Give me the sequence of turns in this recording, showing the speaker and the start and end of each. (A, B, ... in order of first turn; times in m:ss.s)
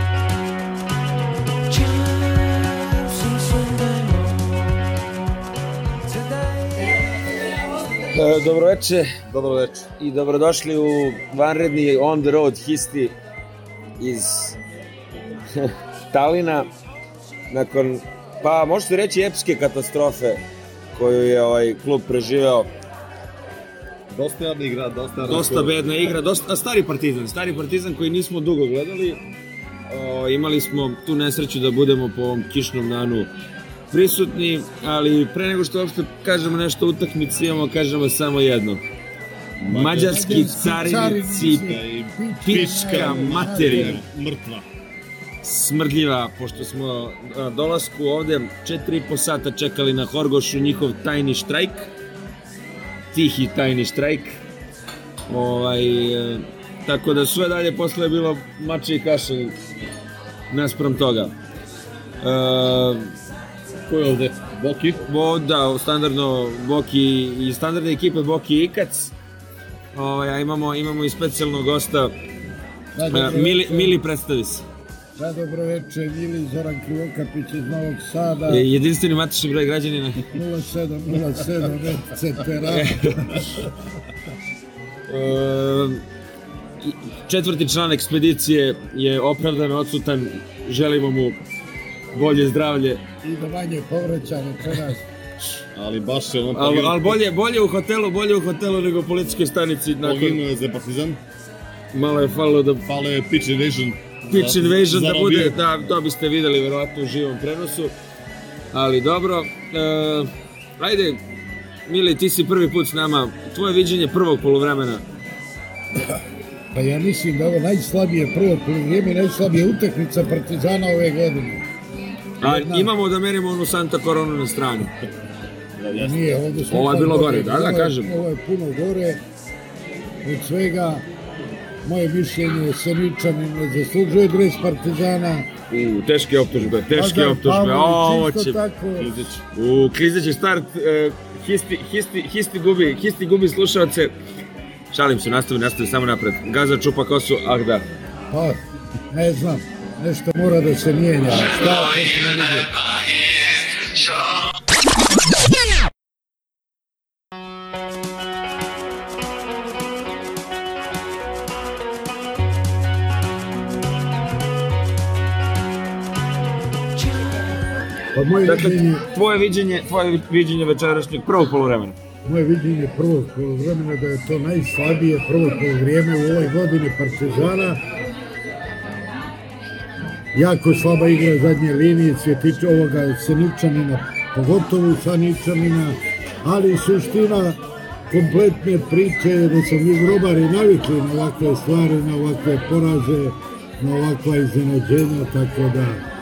0:08.1-0:09.1 A
0:09.3-0:09.9 B
0:10.0-0:13.2 A
0:14.0-0:14.6 A
0:15.5-0:16.7 A
0:17.5-0:22.7 A
0:24.1-0:25.8 B
0:25.2-0:29.2 A
0:29.9-0:33.3 A
0:33.9-0:38.8 A
0:39.6-0:40.6 B
0:39.7-0:41.7 A
0:40.0-0:44.0 C
0:41.3-0:44.7 B
0:42.4-0:44.0 A
0:45.4-0:51.9 A
0:53.1-0:54.4 A
0:55.3-0:59.6 A
1:00.5-1:01.3 A
1:02.2-1:03.1 A
1:03.9-1:05.0 B
1:05.0-1:09.2 A
1:09.9-1:12.1 A
1:13.0-1:14.0 C
1:13.1-1:14.6 A
1:15.2-1:18.7 C
1:18.5-1:20.3 A
1:20.3-1:23.7 C
1:22.7-1:23.4 A
1:25.1-1:26.0 A
1:26.8-1:31.4 A
1:32.1-1:33.0 A
1:33.2-1:35.0 C
1:35.7-1:37.2 B
1:36.5-1:40.4 A
1:40.0-1:41.2 B
1:41.9-1:42.8 A
1:42.8-1:45.8 B
1:44.3-1:47.9 A
1:48.7-1:51.2 A
1:51.9-1:55.0 A
1:56.7-2:01.6 C
2:02.4-2:04.9 A
2:02.4-2:02.9 C
2:05.8-2:06.2 B
2:06.0-2:09.2 C
2:06.7-2:08.2 A
2:10.2-2:11.0 C
2:11.8-2:15.5 C
2:15.7-2:18.6 A
2:16.9-2:19.2 C
2:19.0-2:19.4 B
2:19.5-2:24.1 A
2:24.9-2:27.8 A
2:28.3-2:28.6 C
2:29.1-2:32.7 C
2:48.1-2:49.0 C
2:48.4-2:52.0 A
2:52.2-2:57.8 C
3:00.3-3:16.0 C